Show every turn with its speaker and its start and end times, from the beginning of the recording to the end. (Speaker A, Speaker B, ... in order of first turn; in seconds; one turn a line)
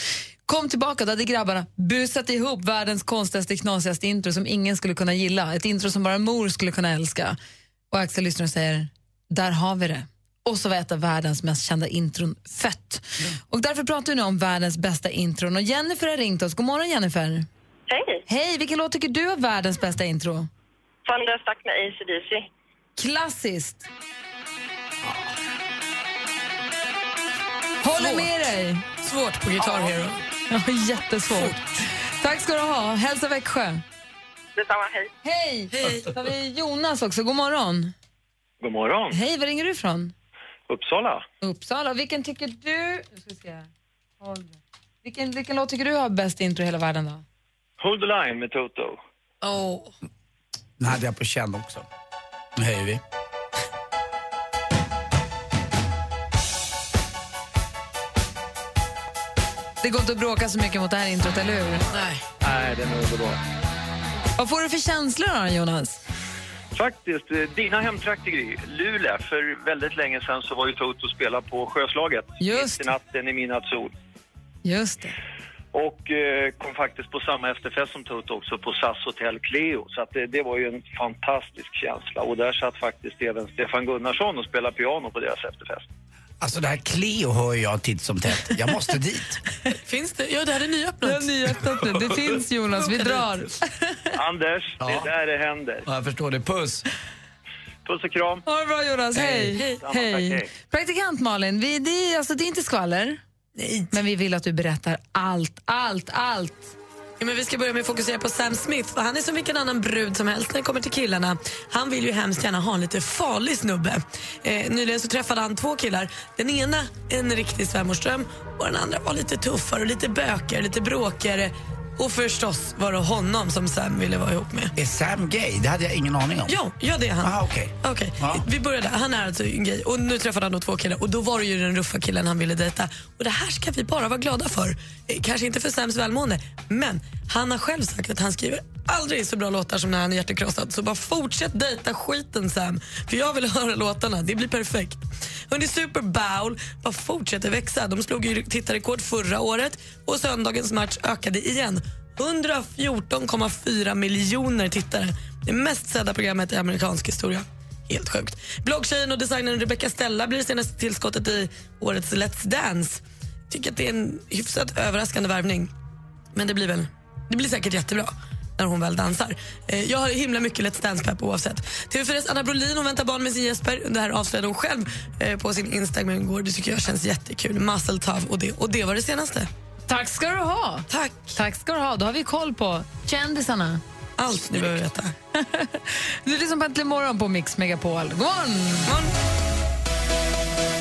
Speaker A: 0.5-7.4
Speaker A: 7.9-17.5
Speaker B: 17.9-18.2
Speaker A: 18.3-20.5
Speaker B: 21.1-22.5
Speaker A: 23.0-23.9
Speaker A: 27.8-28.8
Speaker C: 27.9-28.3
Speaker C: 29.0-30.2
Speaker A: 30.5-33.8
Speaker C: 31.3-31.8
Speaker B: 34.6-35.1
Speaker A: 35.2-37.9
Speaker C: 35.7-36.1
Speaker D: 38.6-39.2
Speaker A: 39.1-40.1
Speaker D: 40.7-41.2
Speaker A: 41.4-43.7
Speaker A: 44.2-47.2
Speaker D: 47.8-49.0
Speaker C: 49.4-49.9
Speaker E: 50.8-51.9
Speaker E: 52.6-53.0
Speaker A: 59.8-61.9
Speaker C: 61.9-62.2
Speaker D: 62.4-63.4
Speaker A: 64.4-66.0
Speaker D: 66.7-73.9
Speaker A: 72.4-72.9
Speaker A: 74.6-75.2
Speaker D: 75.7-85.9
Speaker E: 86.4-89.4
Speaker C: 89.9-91.5
Speaker A: 91.0-93.6
Speaker D: 94.1-95.9
Speaker E: 94.8-95.1
Speaker E: 95.9-96.8
Speaker D: 97.9-98.4
Speaker A: 98.5-103.2
Speaker E: 99.1-99.5
Speaker D: 99.6-100.5
Speaker C: 103.6-103.9
Speaker A: 103.9-106.8
Speaker C: 107.2-124.7
Speaker E: 124.8-126.6
Speaker C: 126.5-145.0
Speaker E: 127.2-128.4
Speaker C: 145.5-165.7
Speaker C: 166.3-179.5
Speaker A: 179.9-183.8
Speaker C: 180.9-181.4
Speaker C: 184.2-185.2
Speaker A: 184.5-184.8
Speaker A: 185.3-188.9